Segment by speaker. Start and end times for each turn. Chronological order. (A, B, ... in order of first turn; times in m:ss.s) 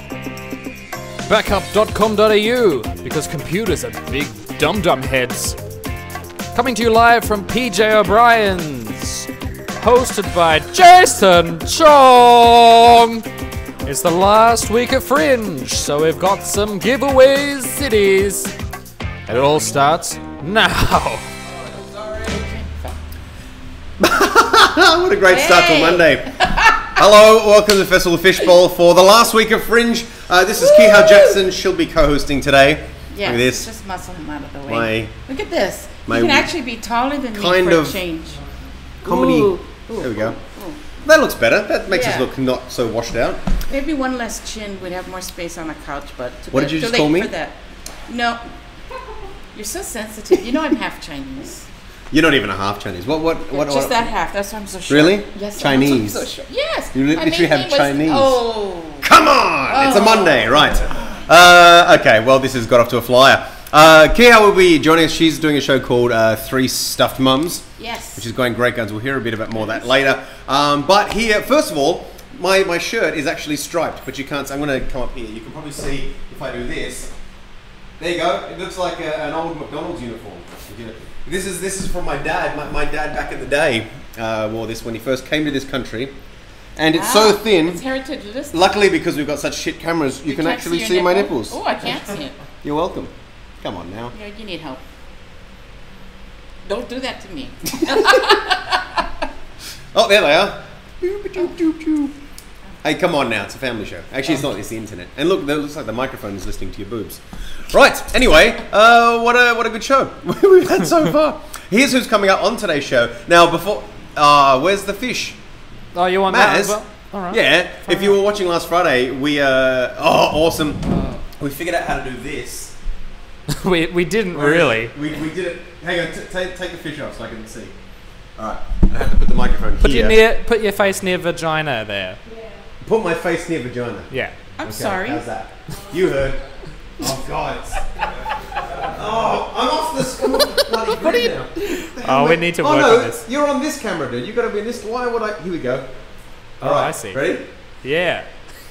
0:01.2-0:05.6 A
0:06.5-0:13.2 A
0:13.8-0:18.5 A
0:19.3-0:21.3 A
0:22.2-0:23.0 B
0:24.0-0:26.3 C
0:25.2-0:26.9 B
0:26.9-0:33.7 C
0:30.6-0:31.4 B
0:33.1-0:38.4 B
0:34.6-0:35.1 C
0:36.0-0:36.5 C
0:37.3-0:38.0 C
0:39.0-0:40.4 C
0:39.0-0:40.8 B
0:41.0-0:43.4 C
0:41.9-0:42.3 B
0:43.6-0:47.6 B
0:46.5-0:47.3 C
0:48.1-0:48.4 B
0:49.5-0:51.7 B
0:52.1-0:54.1 C
0:53.5-0:59.1 B
0:54.9-0:56.3 C
0:56.9-0:58.4 C
0:59.0-1:17.1 C
0:59.7-1:00.5 B
1:07.8-1:08.2 B
1:18.0-1:26.1 C
1:26.8-1:27.8 C
1:26.9-1:28.8 B
1:28.5-1:31.6 C
1:30.2-1:32.4 B
1:32.6-1:34.1 C
1:34.1-1:34.8 B
1:36.6-1:39.0 B
1:37.9-1:38.2 C
1:39.9-1:42.2 C
1:42.8-1:55.4 C
1:55.9-1:58.2 A
1:56.3-2:02.7 C
2:00.8-2:01.2 B
2:03.6-2:04.9 A
2:04.3-2:07.7 C
2:08.4-2:10.2 C
2:09.8-2:12.2 A
2:12.8-2:14.1 C
2:14.1-2:14.4 A
2:14.6-2:15.2 B
2:14.6-2:16.4 C
2:17.0-2:18.0 C
2:18.6-2:25.9 C
2:21.9-2:23.2 A
2:26.6-2:27.4 C
2:26.6-2:27.2 A
2:27.8-2:28.3 A